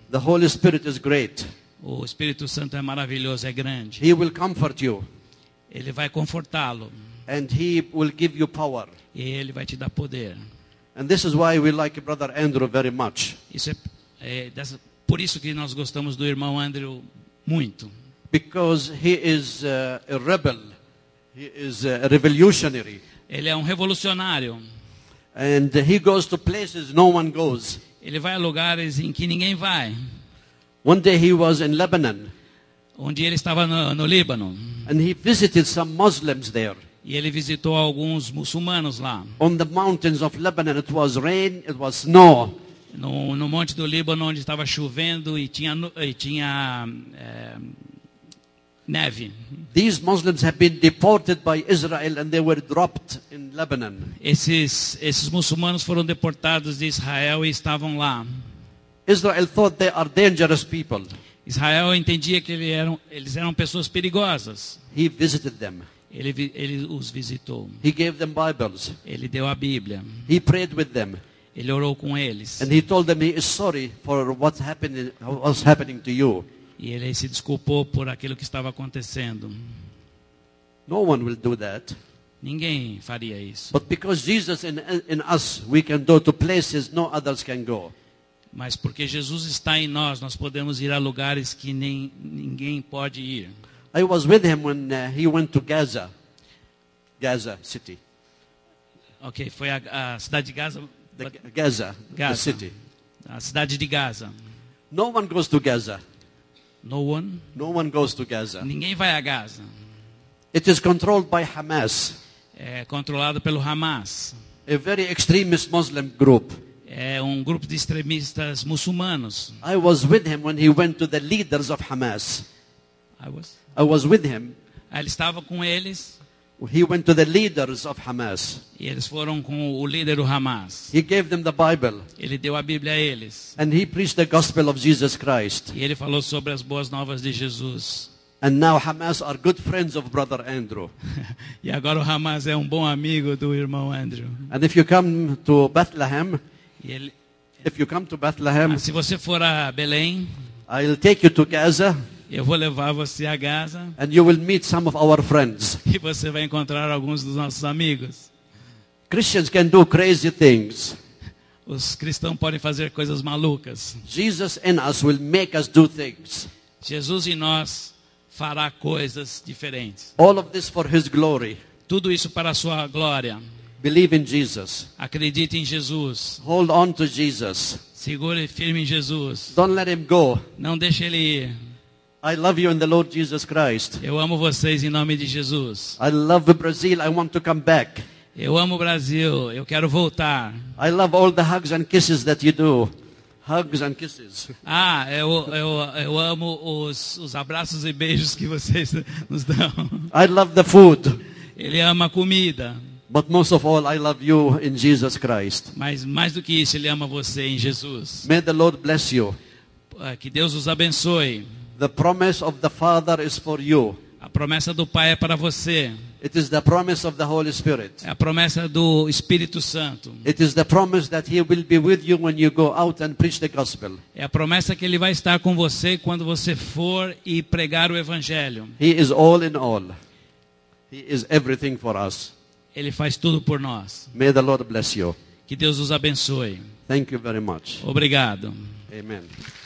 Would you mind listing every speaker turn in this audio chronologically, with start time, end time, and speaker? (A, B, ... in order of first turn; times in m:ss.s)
0:00.1-0:01.5 A
0:01.8-0:04.0 B
0:04.0-0:05.0 A
0:05.7-0:06.9 B
0:07.3-0:08.9 A
0:09.2-0:10.4 B
0:11.0-0:13.4 A
0:13.5-0:17.9 B
0:18.3-0:20.7 A
0:21.4-0:23.0 A
0:23.3-0:24.6 B
0:25.4-0:27.8 A
0:28.0-0:30.0 B
0:30.8-0:32.3 A
0:33.0-0:34.8 B
0:34.9-0:36.8 A
0:37.0-0:39.4 B
0:39.4-0:42.6 A
0:42.9-0:47.8 B
0:48.9-0:49.4 B
0:49.7-0:54.1 A
0:54.2-0:58.3 B
0:59.1-1:01.1 A
1:01.4-1:04.8 B
1:04.9-1:05.8 A
1:06.1-1:07.8 B
1:07.8-1:09.0 A
1:09.0-1:10.2 B
1:10.3-1:11.2 A
1:11.6-1:12.7 B
1:12.6-1:16.5 A
1:16.8-1:19.6 B
1:20.9-1:22.0 A
1:22.4-1:23.8 B
1:23.7-1:27.9 A
1:28.5-1:33.5 B
1:33.9-1:36.1 A
1:37.2-1:38.0 A
1:39.2-1:41.3 B
1:41.2-1:42.7 A
1:42.1-1:42.7 B
1:43.2-1:44.3 B
1:44.9-1:46.0 A
1:46.8-1:47.4 B
1:47.6-1:48.7 A
1:48.6-1:49.7 B
1:50.5-1:52.2 A
1:52.6-1:54.4 B
1:54.7-1:56.6 A
1:56.9-1:59.6 B
1:59.6-2:02.4 A
2:03.2-2:03.6 B
2:03.8-2:04.6 A
2:04.9-2:06.2 B
2:06.6-2:08.6 A
2:08.8-2:10.9 B
2:10.9-2:12.1 A
2:12.2-2:13.6 B
2:13.6-2:15.7 A
2:15.7-2:18.1 B
2:18.4-2:20.9 A
2:21.6-2:24.5 B
2:24.5-2:26.4 A
2:26.8-2:27.1 B
2:27.6-2:28.8 A
2:28.7-2:30.3 B
2:30.7-2:32.0 A
2:32.3-2:34.0 B
2:34.0-2:35.8 A
2:35.9-2:38.3 B
2:39.1-2:41.0 A
2:41.7-2:44.0 B
2:44.1-2:46.5 A
2:46.8-2:50.1 B
2:50.2-2:51.6 A
2:51.9-2:53.4 B
2:53.8-2:54.9 A
2:55.0-2:56.4 B
2:56.4-2:57.8 A
2:58.0-2:59.6 B
2:59.5-3:00.4 A
3:00.6-3:01.6 B
3:02.2-3:04.0 A
3:04.0-3:06.0 B
3:06.0-3:08.0 A
3:08.4-3:10.6 B
3:10.8-3:12.9 A
3:13.4-3:14.5 A
3:14.6-3:20.1 B
3:20.1-3:21.2 A
3:21.6-3:22.8 B
3:23.1-3:25.7 A
3:25.7-3:28.3 B
3:28.2-3:29.4 A
3:29.9-3:31.5 B
3:31.8-3:34.0 A
3:34.2-3:36.0 B
3:36.2-3:38.0 A
3:38.0-3:40.3 B
3:40.2-3:44.0 A
3:44.2-3:48.8 B
3:48.8-3:49.9 A
3:50.9-3:52.3 A
3:52.8-3:54.1 B
3:54.1-3:55.2 A
3:55.5-3:56.7 B
3:56.9-3:57.8 A
3:57.8-3:58.6 B
3:58.9-3:59.3 A